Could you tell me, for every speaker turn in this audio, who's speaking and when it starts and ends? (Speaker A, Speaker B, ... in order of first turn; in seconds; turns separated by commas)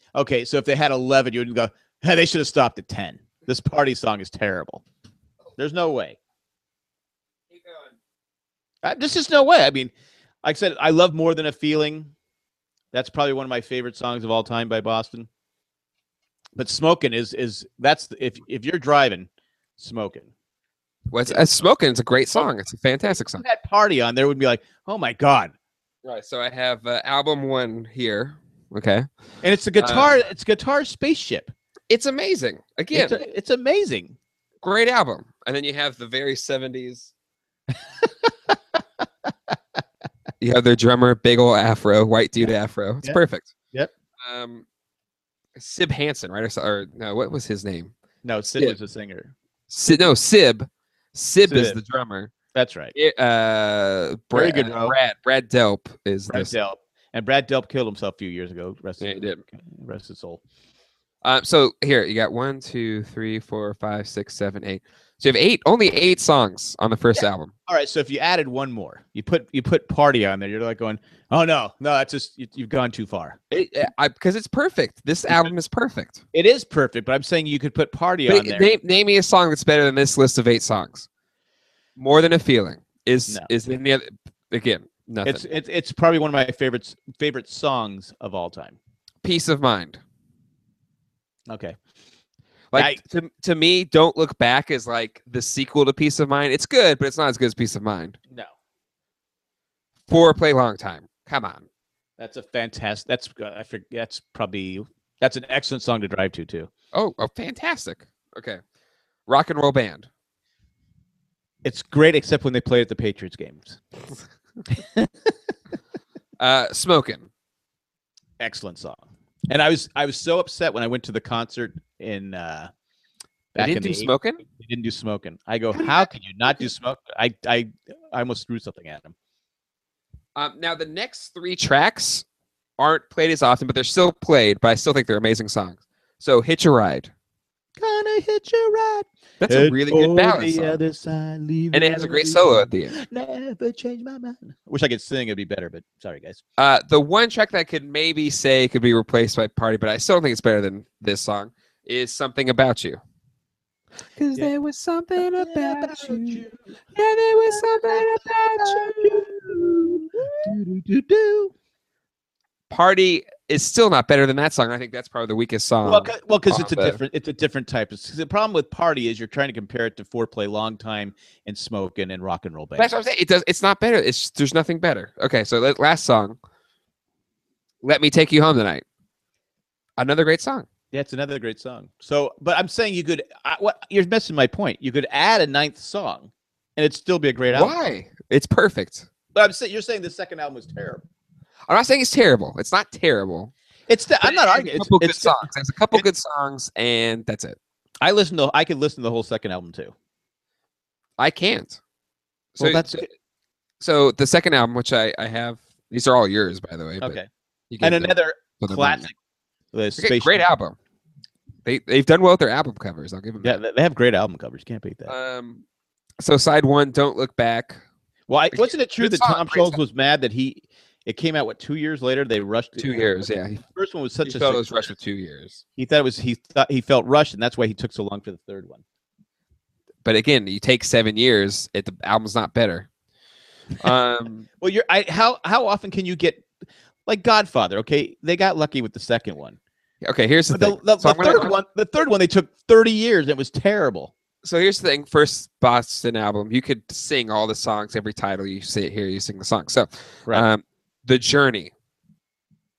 Speaker A: 0.1-4.8, Speaker A: 5.6-6.2, Speaker B: 7.5-7.9, Speaker A: 8.8-9.9, Speaker A: 10.4-12.1, Speaker A: 12.9-15.3, Speaker A: 16.6-20.3, Speaker B: 21.1-23.4, Speaker A: 21.2-21.6, Speaker A: 23.3-25.5, Speaker B: 26.0-29.1, Speaker A: 29.4-31.5, Speaker B: 29.8-30.1, Speaker B: 31.9-33.1, Speaker A: 32.9-34.1, Speaker B: 34.6-37.1, Speaker B: 40.4-43.5, Speaker B: 44.2-44.6, Speaker B: 45.5-47.9, Speaker A: 48.2-49.3, Speaker B: 49.7-52.3, Speaker A: 51.5-51.8, Speaker A: 52.5-52.9, Speaker B: 52.9-56.5, Speaker A: 54.3-55.0, Speaker A: 56.3-60.4, Speaker B: 59.0-59.4, Speaker B: 61.2-67.5, Speaker A: 67.1-73.4, Speaker B: 73.5-76.2, Speaker A: 76.3-78.7, Speaker B: 78.3-81.1, Speaker B: 82.0-85.4, Speaker A: 85.2-88.8, Speaker B: 89.2-90.0, Speaker A: 91.5-91.8, Speaker B: 92.7-98.2, Speaker A: 92.7-93.0, Speaker B: 100.1-101.7, Speaker A: 102.2-106.7, Speaker B: 106.9-108.6, Speaker B: 109.3-110.1, Speaker A: 111.6-113.8, Speaker A: 114.7-115.1, Speaker B: 116.4-117.3, Speaker A: 118.4-122.7, Speaker A: 123.5-129.1, Speaker B: 123.5-124.4, Speaker B: 125.7-126.1, Speaker B: 130.3-132.2, Speaker B: 132.8-137.1, Speaker A: 137.8-146.4, Speaker B: 139.4-140.8, Speaker B: 141.7-142.9, Speaker B: 146.6-153.0, Speaker B: 154.2-156.4, Speaker A: 155.2-156.6, Speaker B: 156.9-160.5, Speaker A: 157.4-161.5, Speaker B: 162.7-167.0, Speaker A: 165.8-172.9, Speaker B: 172.8-176.4, Speaker B: 177.8-178.8, Speaker B: 180.0-180.7, Speaker A: 180.9-187.8, Speaker B: 187.5-189.1, Speaker A: 189.3-191.0, Speaker B: 191.7-193.5, Speaker A: 193.9-196.0, Speaker B: 194.2-197.6, Speaker A: 198.0-199.9, Speaker B: 201.2-201.8, Speaker B: 202.5-203.0, Speaker A: 202.6-203.1, Speaker B: 203.8-207.2, Speaker A: 207.0-207.3, Speaker B: 207.7-209.1, Speaker A: 207.8-209.1, Speaker A: 209.7-210.4, Speaker B: 210.0-210.8, Speaker B: 211.6-213.6, Speaker A: 213.4-215.1, Speaker B: 215.1-215.6, Speaker B: 216.2-217.8, Speaker A: 218.3-224.7, Speaker B: 218.5-219.8, Speaker B: 222.8-223.6, Speaker B: 224.2-225.6, Speaker A: 225.8-228.8, Speaker B: 230.0-232.9, Speaker B: 233.8-234.5, Speaker A: 234.6-236.5, Speaker A: 237.1-239.6, Speaker B: 240.0-241.5, Speaker A: 240.5-244.1, Speaker B: 244.4-251.7